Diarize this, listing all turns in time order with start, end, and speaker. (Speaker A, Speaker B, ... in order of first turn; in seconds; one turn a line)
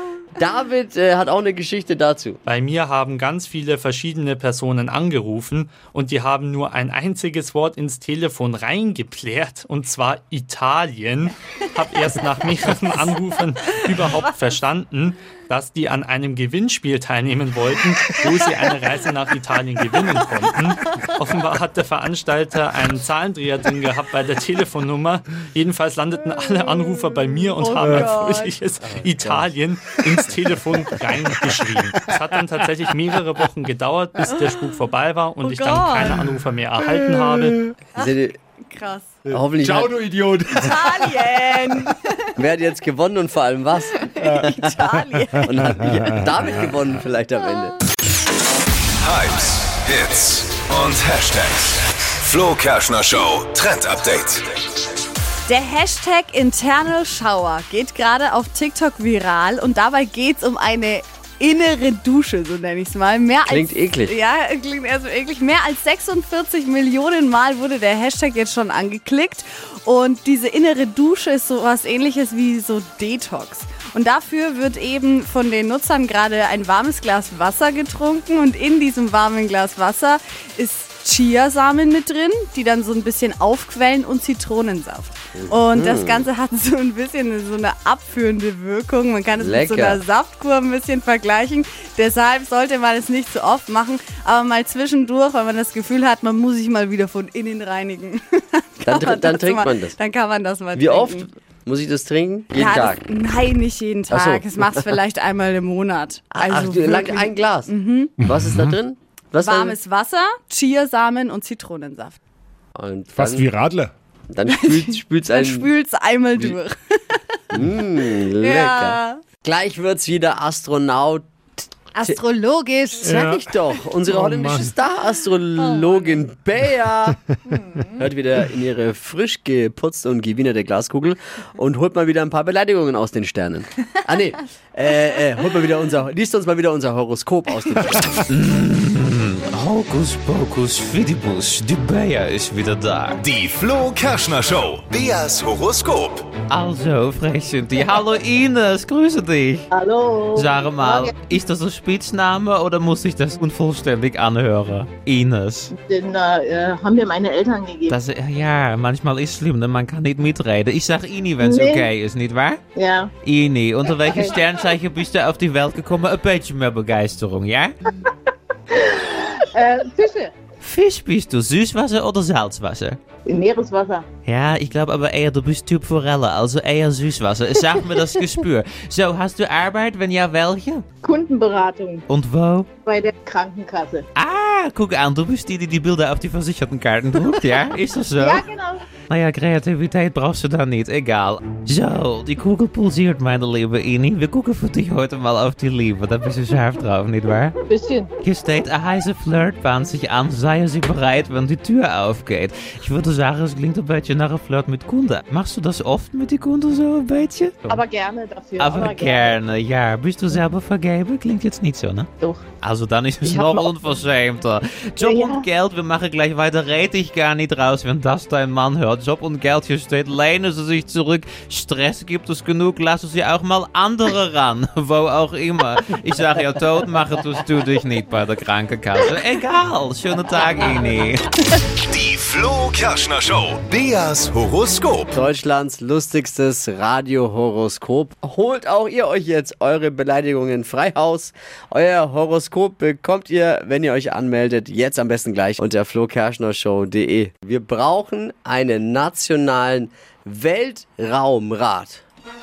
Speaker A: 0.4-2.4
Speaker B: 2.5-37.5
Speaker C: 13.7-14.2
Speaker C: 26.5-26.8
Speaker C: 27.5-28.1
Speaker D: 27.6-28.6
Speaker E: 27.8-28.1
Speaker A: 28.8-29.5
Speaker E: 32.0-32.7
Speaker D: 35.4-36.4
Speaker C: 35.5-37.5
Speaker E: 36.8-37.7
Speaker A: 38.0-38.3
Speaker D: 38.7-39.1
Speaker E: 39.2-41.9
Speaker A: 39.3-39.9
Speaker D: 40.5-42.3
Speaker A: 42.4-44.5
Speaker D: 44.0-45.7
Speaker A: 45.4-47.8
Speaker C: 49.0-54.5
Speaker D: 55.5-101.3
Speaker A: 63.5-64.1
Speaker A: 85.3-86.3
Speaker A: 89.4-90.0
Speaker A: 98.8-100.0
Speaker A: 100.7-103.1
Speaker D: 102.5-108.1
Speaker A: 104.1-105.0
Speaker A: 106.3-109.8
Speaker D: 109.4-112.2
Speaker A: 112.7-113.5
Speaker E: 113.1-113.9
Speaker A: 114.3-115.7
Speaker D: 114.5-117.6
Speaker A: 117.5-121.2
Speaker D: 118.2-119.2
Speaker D: 121.9-123.2
Speaker A: 123.0-127.2
Speaker E: 123.0-123.5
Speaker E: 124.0-124.7
Speaker D: 125.6-126.1
Speaker D: 127.5-128.0
Speaker A: 128.0-138.2
Speaker F: 138.3-143.2
Speaker C: 143.2-146.3
Speaker F: 146.5-149.7
Speaker G: 149.7-151.1
Speaker F: 150.3-155.7
Speaker G: 155.7-157.9
Speaker F: 157.9-162.6
Speaker G: 161.4-161.9
Speaker G: 162.7-163.1
Speaker F: 163.2-167.7
Speaker G: 163.9-164.4
Speaker G: 169.5-170.3
Speaker F: 170.6-173.0
Speaker G: 173.2-174.1
Speaker F: 174.2-180.8
Speaker G: 181.0-182.0
Speaker F: 182.1-182.7
Speaker G: 182.8-184.1
Speaker F: 184.1-188.4
Speaker G: 188.2-188.8
Speaker F: 189.1-197.5
Speaker G: 197.6-198.1
Speaker F: 198.2-207.8
Speaker G: 207.7-209.4
Speaker F: 208.6-212.1
Speaker G: 212.2-212.4
Speaker F: 212.6-231.6
Speaker G: 213.2-213.7
Speaker G: 215.0-215.5
Speaker C: 231.9-235.1
Speaker A: 235.1-252.0